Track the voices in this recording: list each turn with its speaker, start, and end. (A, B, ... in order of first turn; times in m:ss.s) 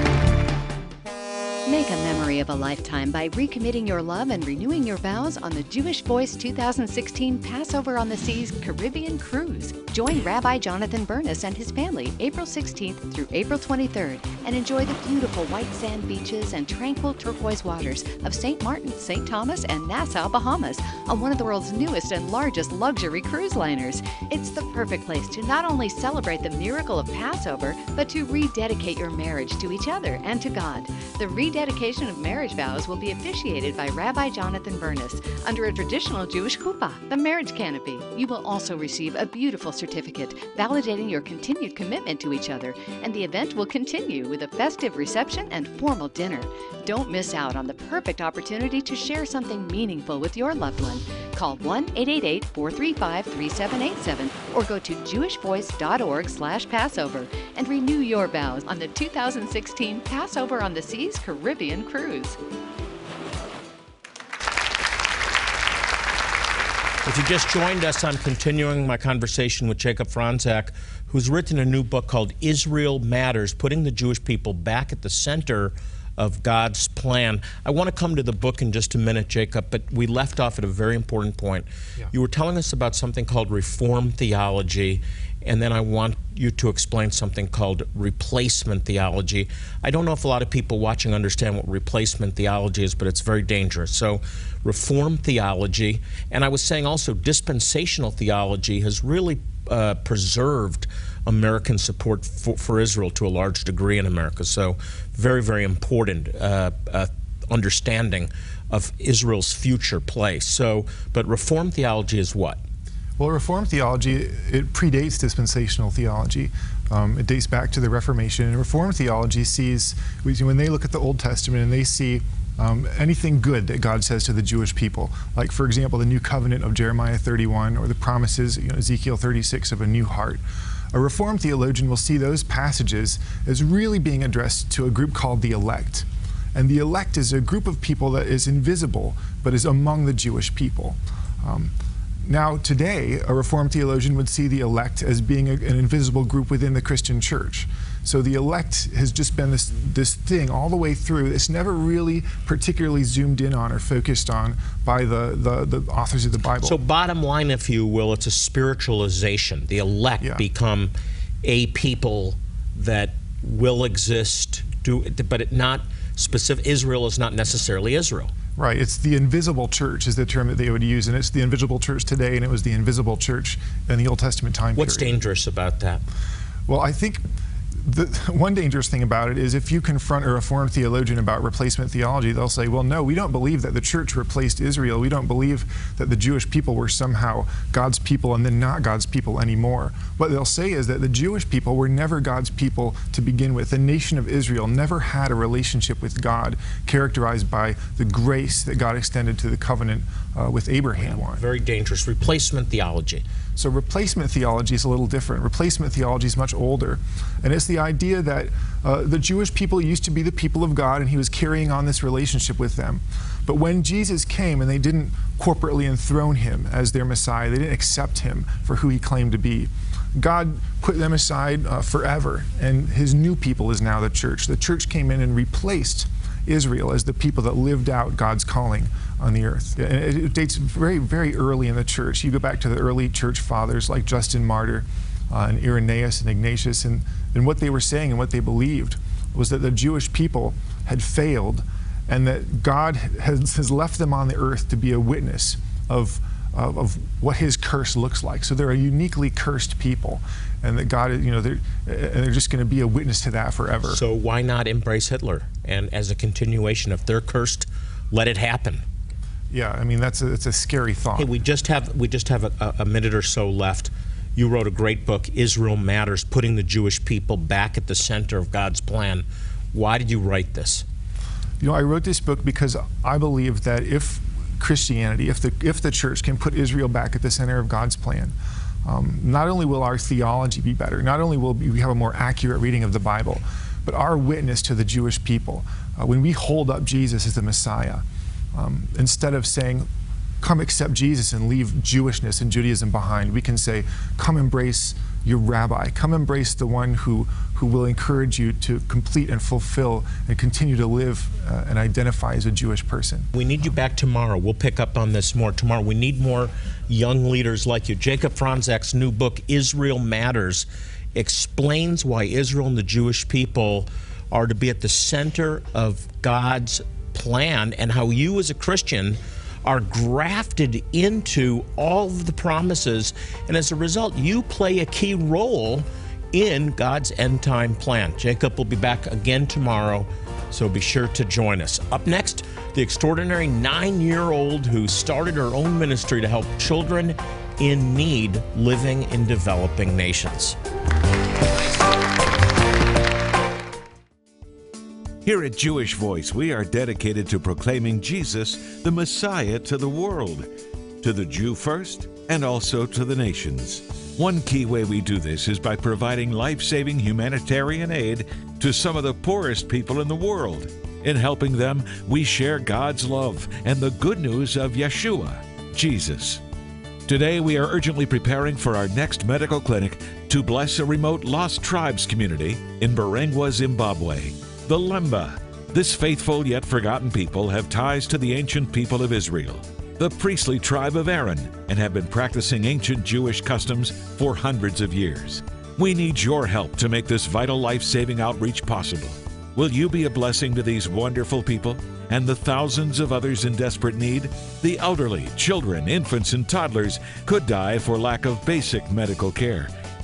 0:01.7-1:02.4 A
1:07.1-1:52.6 B
1:53.2-2:10.4 C
2:10.9-2:36.8 C
2:36.6-2:40.9 B
2:41.4-2:48.3 B
2:48.6-2:55.2 C
2:54.8-2:56.0 B
2:56.7-2:57.2 C
2:57.8-3:21.4 C
3:21.0-3:23.2 B
3:23.6-4:14.0 C
4:13.9-4:18.8 B
4:19.5-4:21.3 C
4:21.2-4:30.8 B
4:31.6-4:49.9 C
4:50.4-5:03.3 C
5:03.4-5:40.6 B
5:45.2-5:50.5 D
5:51.0-6:06.4 D
6:07.1-6:39.7 D